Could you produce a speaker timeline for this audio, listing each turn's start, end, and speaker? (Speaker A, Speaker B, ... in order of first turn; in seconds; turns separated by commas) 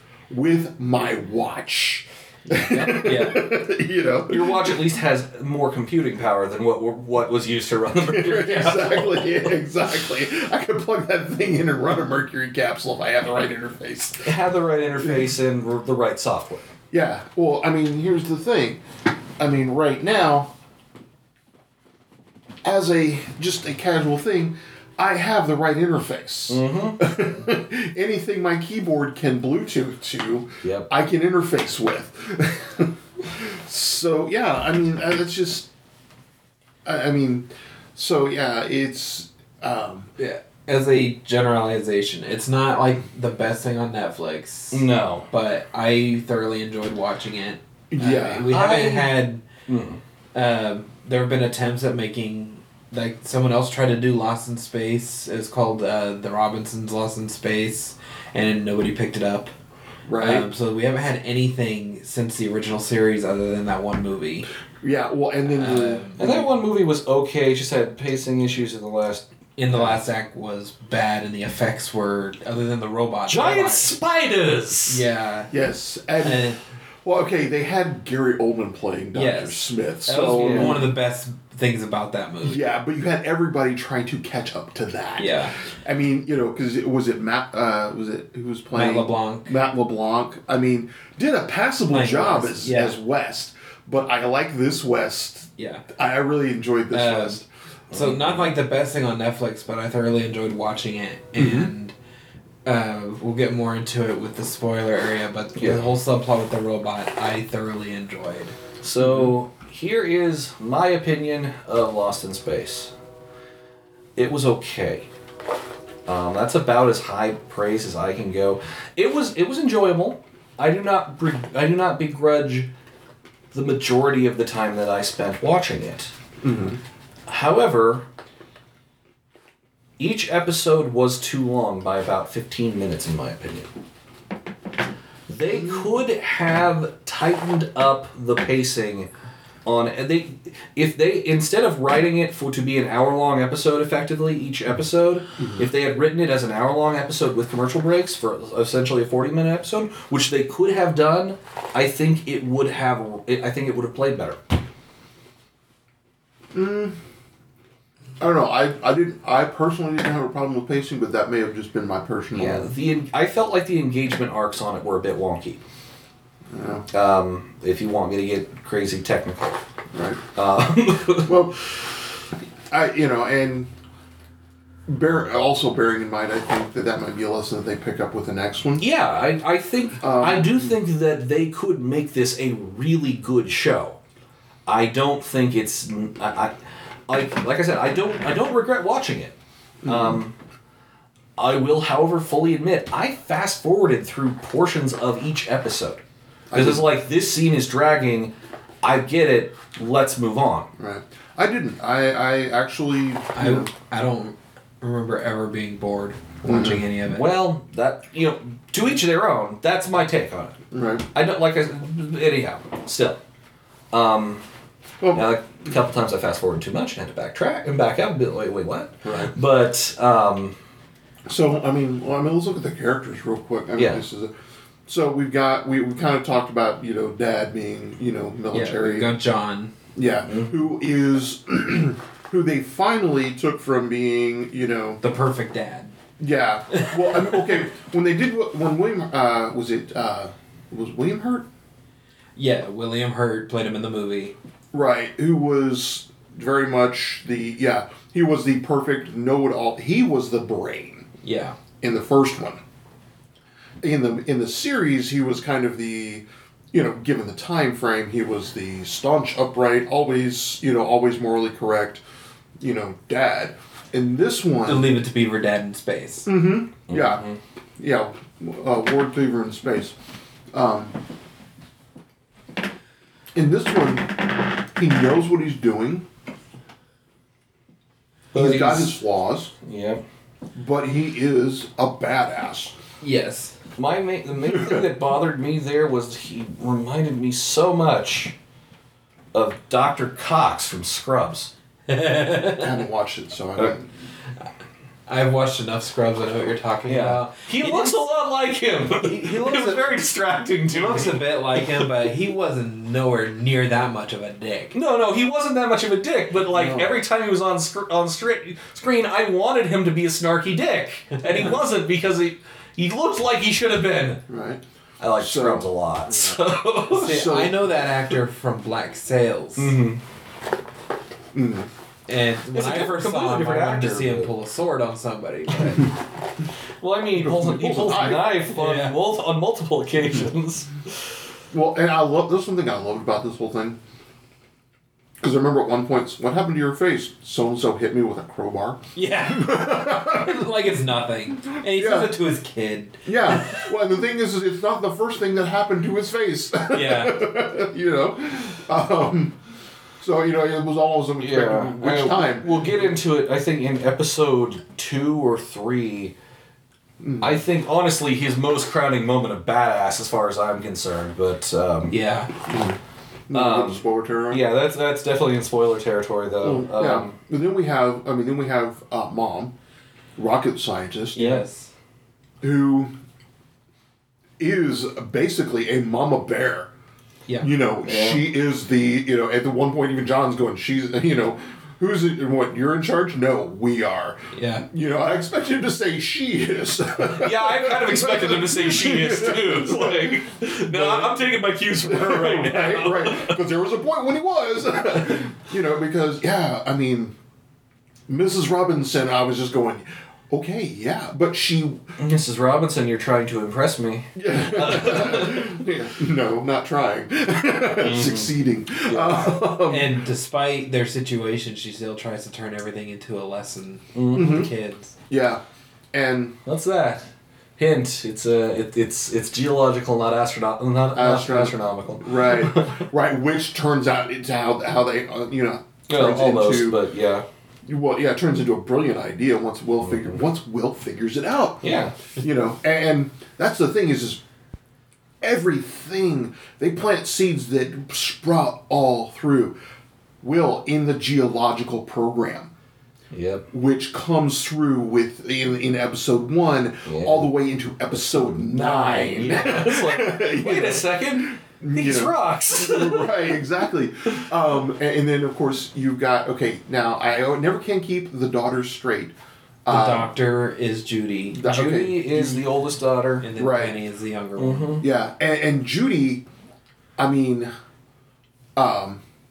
Speaker A: 0.3-4.8, Speaker B: 2.5-3.5, Speaker C: 4.3-9.4, Speaker A: 8.0-14.3, Speaker C: 14.2-16.6, Speaker A: 15.0-15.3, Speaker A: 16.9-18.8, Speaker A: 19.4-20.5, Speaker A: 22.6-35.7, Speaker C: 26.5-27.0, Speaker C: 30.6-30.9, Speaker A: 36.8-40.1, Speaker B: 40.2-49.4, Speaker C: 44.7-45.3, Speaker A: 47.9-48.5, Speaker C: 48.5-50.0, Speaker B: 50.3-59.5, Speaker A: 60.1-60.5, Speaker B: 60.2-64.5, Speaker A: 64.8-66.3, Speaker B: 65.5-66.5, Speaker C: 66.2-69.2, Speaker B: 69.6-73.9, Speaker A: 69.7-70.0, Speaker C: 73.2-75.0, Speaker B: 74.9-75.5, Speaker A: 75.5-80.9, Speaker B: 76.2-76.6, Speaker B: 79.1-82.6, Speaker C: 80.1-80.8, Speaker A: 82.4-97.5, Speaker B: 85.2-85.5, Speaker B: 88.7-89.6, Speaker B: 91.9-93.0, Speaker B: 95.6-95.8, Speaker B: 96.9-97.4, Speaker C: 97.9-98.5, Speaker B: 97.9-101.9, Speaker A: 101.4-101.7, Speaker B: 102.6-108.6, Speaker C: 105.5-105.9, Speaker C: 108.8-112.9, Speaker C: 114.2-115.1, Speaker C: 116.0-122.7, Speaker C: 123.5-126.1, Speaker A: 126.4-126.8, Speaker C: 127.3-128.0, Speaker C: 130.0-133.7, Speaker C: 135.3-139.1, Speaker A: 135.6-135.9, Speaker C: 139.6-154.4, Speaker A: 145.4-145.6, Speaker A: 156.5-157.0, Speaker A: 158.2-162.7, Speaker C: 162.3-165.6, Speaker A: 166.5-166.9, Speaker C: 166.9-169.6, Speaker A: 169.9-170.2, Speaker C: 170.3-171.4, Speaker A: 171.2-171.7, Speaker A: 172.7-173.7, Speaker A: 174.9-178.8, Speaker C: 178.8-184.0, Speaker A: 180.0-180.7, Speaker C: 184.7-186.5, Speaker C: 187.1-190.3, Speaker A: 189.8-190.2, Speaker C: 191.4-196.0, Speaker A: 196.5-196.8, Speaker C: 196.5-200.7, Speaker A: 200.8-203.7, Speaker B: 203.3-207.3, Speaker A: 206.4-206.8, Speaker C: 207.1-210.6, Speaker A: 210.7-211.1, Speaker C: 211.1-213.2, Speaker C: 213.9-214.4, Speaker A: 215.0-215.3, Speaker C: 215.1-220.6, Speaker A: 219.0-219.3, Speaker A: 221.3-224.3, Speaker C: 223.8-224.0, Speaker A: 224.9-229.1, Speaker B: 228.5-229.7, Speaker A: 229.9-235.0, Speaker C: 230.2-230.5, Speaker B: 235.0-235.9, Speaker A: 236.2-241.4, Speaker B: 236.8-237.4, Speaker B: 242.3-244.3, Speaker A: 244.7-251.1, Speaker B: 251.2-251.6, Speaker A: 251.8-252.6, Speaker A: 253.8-262.0, Speaker A: 262.6-264.9, Speaker B: 264.6-266.3, Speaker A: 266.2-267.2, Speaker C: 266.9-267.4, Speaker A: 267.8-269.9, Speaker A: 270.5-270.9, Speaker A: 273.3-276.1, Speaker A: 278.3-279.5, Speaker B: 278.3-279.0, Speaker C: 279.6-280.0, Speaker A: 280.5-282.7, Speaker B: 283.0-283.6, Speaker C: 283.8-288.3, Speaker A: 284.4-284.8, Speaker C: 289.3-291.5, Speaker B: 291.9-292.8, Speaker A: 292.6-293.9, Speaker B: 295.1-298.0, Speaker C: 296.8-301.9, Speaker B: 298.9-300.0, Speaker B: 300.7-304.7, Speaker C: 304.7-314.2, Speaker A: 306.5-306.9, Speaker A: 314.3-314.6, Speaker C: 315.0-317.2, Speaker A: 315.2-317.8, Speaker B: 316.9-319.7, Speaker C: 319.6-320.0, Speaker A: 321.3-321.7, Speaker B: 322.1-325.9, Speaker C: 322.5-324.3, Speaker C: 326.8-331.2, Speaker A: 327.2-328.3, Speaker B: 328.5-328.9, Speaker A: 331.5-333.8, Speaker A: 335.2-340.5, Speaker B: 338.9-343.7, Speaker A: 341.6-342.1, Speaker A: 343.1-349.4, Speaker B: 346.7-347.2, Speaker A: 350.0-352.8, Speaker C: 351.2-356.1, Speaker A: 357.0-357.4, Speaker C: 357.2-361.9, Speaker B: 361.9-362.3, Speaker A: 362.5-362.8, Speaker A: 363.3-364.4, Speaker C: 363.3-367.1, Speaker A: 366.4-369.5, Speaker A: 370.2-371.3, Speaker B: 371.1-371.7, Speaker C: 371.2-371.4, Speaker A: 372.4-372.9, Speaker A: 374.4-376.7, Speaker A: 377.4-391.2, Speaker C: 377.8-378.2, Speaker B: 384.3-384.6, Speaker C: 387.1-393.4, Speaker A: 391.8-397.1, Speaker A: 398.1-401.9, Speaker C: 402.0-405.6, Speaker A: 404.1-410.0, Speaker C: 407.8-408.3, Speaker C: 408.8-409.4, Speaker B: 409.7-414.9, Speaker C: 413.9-414.4, Speaker A: 414.1-414.5, Speaker A: 415.1-415.4, Speaker A: 415.9-416.4, Speaker C: 416.4-422.8, Speaker A: 420.9-426.8, Speaker C: 425.9-427.2, Speaker A: 427.6-434.2, Speaker C: 429.9-430.1, Speaker C: 431.6-432.0, Speaker A: 435.2-439.6, Speaker A: 440.2-442.5, Speaker C: 443.1-443.4, Speaker A: 443.5-459.1, Speaker C: 446.9-447.3, Speaker C: 448.1-453.3, Speaker A: 459.6-460.1, Speaker B: 459.7-461.4, Speaker A: 461.3-462.4, Speaker C: 461.4-463.3, Speaker B: 463.2-464.8, Speaker A: 463.4-463.8, Speaker C: 464.4-464.8, Speaker A: 464.8-466.2, Speaker A: 467.0-467.5, Speaker A: 468.6-469.0